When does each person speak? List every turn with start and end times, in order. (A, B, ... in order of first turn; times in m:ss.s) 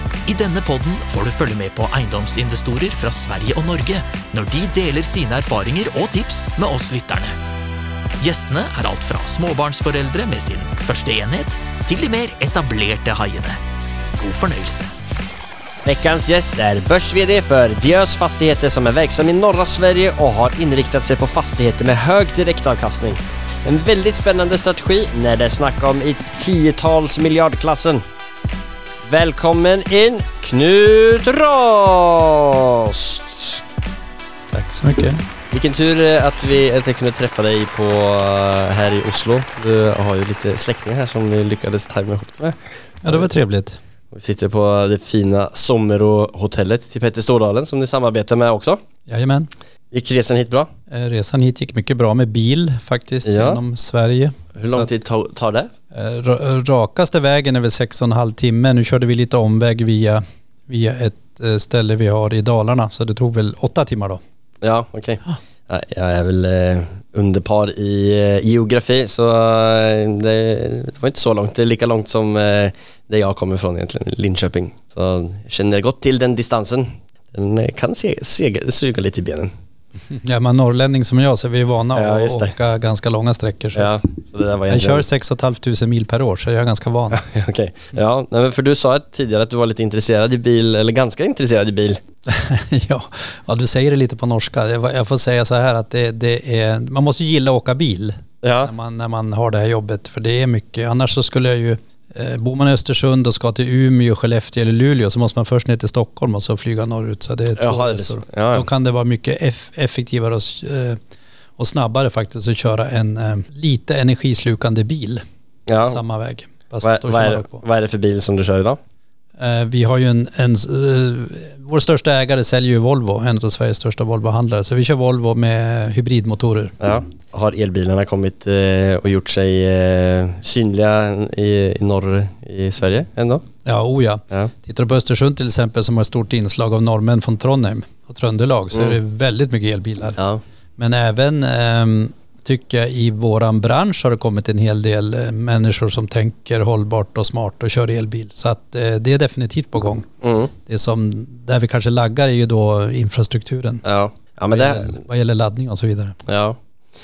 0:00.3-0:07.3 A
0:08.2-0:13.6 A
0:14.2-0:14.9 A
0:15.8-0:28.0 B
0:29.1-0:33.6 B
0:34.5-0:35.2 C
0:35.5-0:43.3 B
0:43.0-0:43.8 C
0:44.1-0:48.8 B
0:49.1-0:49.5 C
0:49.9-0:50.7 B
0:50.9-0:54.9 C
0:53.3-0:53.6 B
0:54.6-0:55.7 B
0:55.9-1:04.2 C
1:04.6-1:19.5 B
1:20.1-1:24.0 C
1:21.9-1:22.5 B
1:23.8-1:25.0 B
1:24.7-1:27.2 C
1:27.1-1:32.0 B
1:32.3-1:51.0 C
1:38.4-1:38.7 B
1:47.6-1:48.7 B
1:51.6-1:55.2 C
1:55.7-1:56.0 B
1:55.9-1:57.6 C
1:56.8-1:58.8 B
1:59.4-2:06.8 C
2:06.8-2:13.4 B
2:13.6-2:20.2 C
2:18.7-2:19.0 B
2:20.2-2:20.4 B
2:20.8-2:30.1 C
2:30.2-2:30.5 B
2:30.6-2:33.8 C
2:33.8-2:35.0 B
2:34.5-2:36.2 C
2:36.3-2:36.6 B